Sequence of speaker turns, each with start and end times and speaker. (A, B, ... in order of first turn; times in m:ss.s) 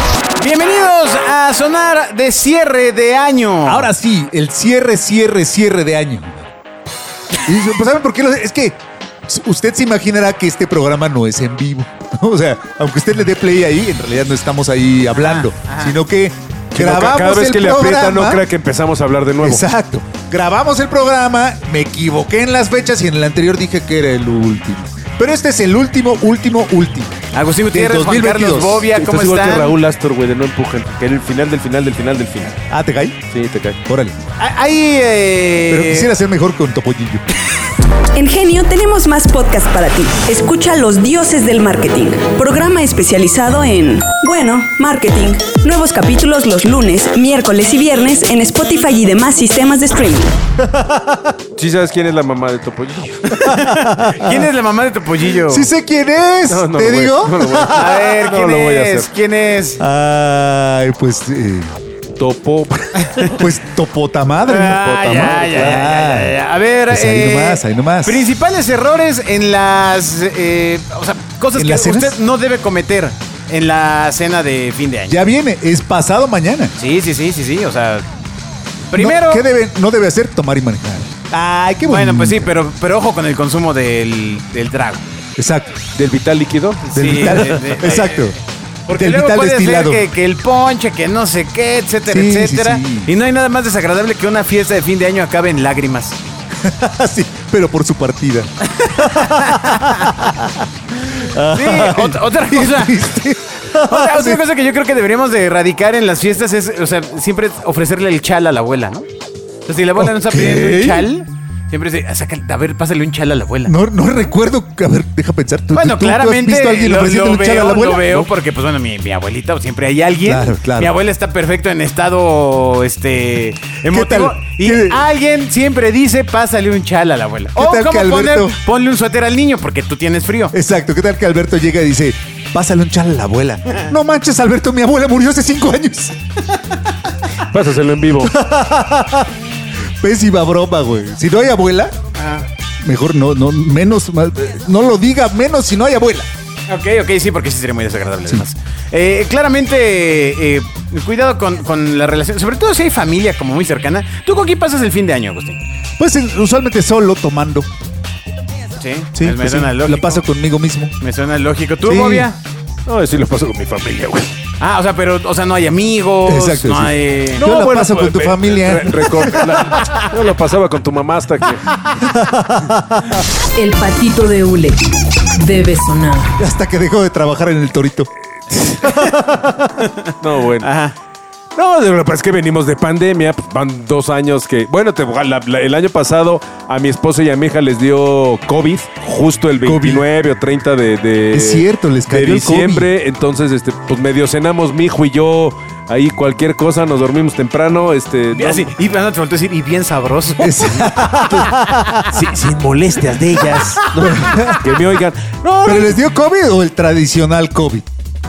0:00.4-0:03.9 A
0:03.6-0:06.4 B
0:07.4-0:18.4 B
0:15.1-0:16.0 A
0:16.7-0:19.6 C
0:19.4-0:27.2 B
0:27.3-0:29.8 A
0:27.7-0:28.9 B
0:28.9-0:32.6 C
0:32.7-0:33.2 B
0:33.3-0:33.8 C
0:33.8-0:34.2 B
0:34.4-0:36.1 A
0:35.7-0:37.2 B
0:38.1-0:50.4 D
0:50.6-0:51.3 B
0:51.6-0:53.5 C
0:53.4-0:55.7 A
0:55.5-0:58.0 B
0:56.5-0:59.1 C
0:57.7-0:59.8 A
0:59.8-1:01.7 B
1:02.2-1:03.3 C
1:03.2-1:08.2 B
1:04.4-1:15.2 A
1:04.7-1:05.9 C
1:11.5-1:12.2 B
1:15.1-1:16.7 B
1:16.8-1:18.1 A
1:18.9-1:19.4 A
1:18.9-1:22.5 B
1:21.8-1:25.0 A
1:25.4-1:25.8 B
1:25.9-1:27.6 C
1:26.9-1:28.3 A
1:26.9-1:28.4 B
1:28.9-1:36.2 A
1:28.9-1:30.0 B
1:32.0-1:33.1 B
1:36.6-1:40.6 B
1:38.8-1:40.1 A
1:41.2-1:44.4 B
1:41.5-1:43.1 A
1:43.7-1:49.0 A
1:49.6-1:53.7 A
1:50.0-1:51.1 B
1:53.6-1:58.1 B
1:55.7-2:10.6 A
2:00.2-2:00.9 B
2:03.9-2:05.0 B
2:07.6-2:08.6 B
2:10.5-2:16.1 B
2:17.5-2:18.3 C
2:18.2-2:19.3 B
2:20.0-2:21.9 B
2:22.2-2:22.5 A
2:22.8-2:26.3 B
2:26.7-2:35.6 A
2:36.0-2:37.7 B
2:38.8-2:40.2 A
2:39.1-2:40.9 B
2:41.0-2:42.4 A
2:41.8-2:42.3 B
2:42.8-2:44.3 C
2:44.6-2:47.4 A
2:46.2-2:49.7 B
2:47.3-2:51.7 C
2:52.0-2:53.2 B
2:53.5-2:54.8 E
2:55.3-2:56.3 E
2:56.4-2:58.1 B
2:58.5-2:58.9 C
2:58.8-2:59.7 B
2:59.8-3:00.1 A
3:00.2-3:00.7 C
3:00.6-3:00.9 A
3:01.5-3:18.7 C
3:09.6-3:10.0 B
3:11.3-3:12.9 B
3:18.3-3:21.1 A
3:20.4-3:22.0 B
3:22.0-3:26.0 C
3:23.9-3:24.8 B
3:25.6-3:27.8 B